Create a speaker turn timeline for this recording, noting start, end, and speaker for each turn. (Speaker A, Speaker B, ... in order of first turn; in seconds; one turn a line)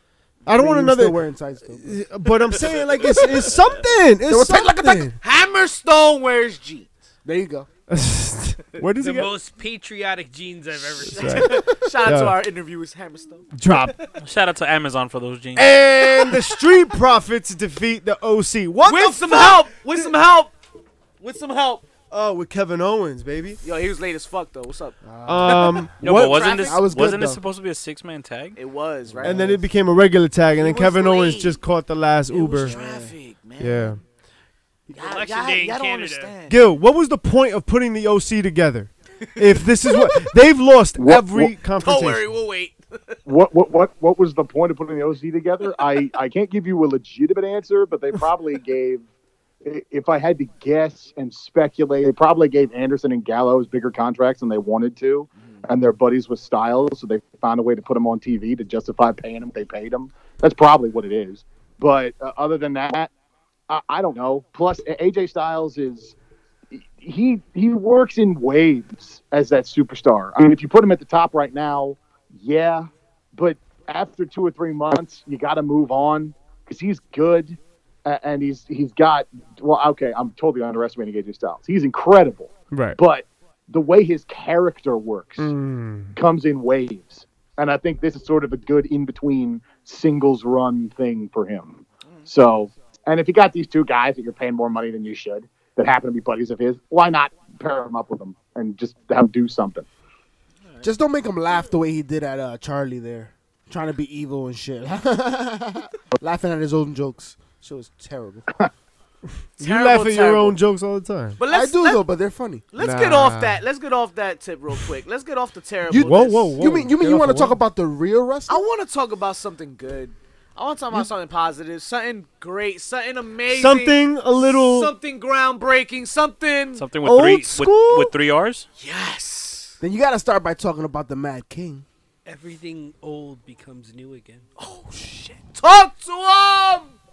Speaker A: 0.4-5.1
Speaker B: 0.5-2.0
Speaker C: 2.4-3.7
Speaker B: 4.3-5.1
Speaker C: 5.2-6.9
Speaker B: 7.2-7.7
Speaker A: 7.9-9.3
Speaker D: 8.9-11.6
Speaker A: 11.0-12.4
Speaker C: 11.0-13.5
Speaker A: 13.5-13.9
Speaker E: 14.2-15.8
Speaker A: 15.5-20.1
Speaker C: 16.0-16.7
Speaker C: 18.8-20.5
Speaker C: 21.2-21.9
Speaker A: 22.1-23.6
Speaker C: 23.6-26.8
Speaker B: 25.0-25.9
Speaker A: 25.2-26.6
Speaker E: 26.0-28.6
Speaker B: 26.6-27.4
Speaker C: 28.6-29.5
Speaker B: 29.1-29.6
Speaker A: 29.2-32.8
Speaker C: 30.5-31.6
Speaker C: 32.3-34.0
Speaker B: 32.6-33.1
Speaker A: 33.6-34.0
Speaker D: 34.9-36.3
Speaker C: 34.9-36.6
Speaker A: 36.5-42.3
Speaker C: 39.2-40.3
Speaker F: 41.0-41.5
Speaker C: 41.8-43.2
Speaker F: 43.2-49.0
Speaker F: 49.6-63.1
Speaker C: 55.4-55.6
Speaker F: 63.7-66.2
Speaker F: 66.7-85.5
Speaker A: 82.7-83.0
Speaker A: 85.4-86.2
Speaker F: 86.1-99.8
Speaker C: 100.6-100.9
Speaker B: 100.8-108.5
Speaker A: 109.6-111.4
Speaker C: 109.6-110.6
Speaker C: 111.4-112.0
Speaker B: 111.5-112.7
Speaker C: 112.7-116.6
Speaker A: 112.8-113.6
Speaker B: 115.9-118.6
Speaker A: 115.9-117.6
Speaker C: 118.5-126.8
Speaker A: 123.5-124.9
Speaker E: 126.8-128.7
Speaker A: 127.0-128.1
Speaker C: 128.8-129.8
Speaker B: 129.8-131.8
Speaker D: 132.2-134.4
Speaker C: 134.6-136.9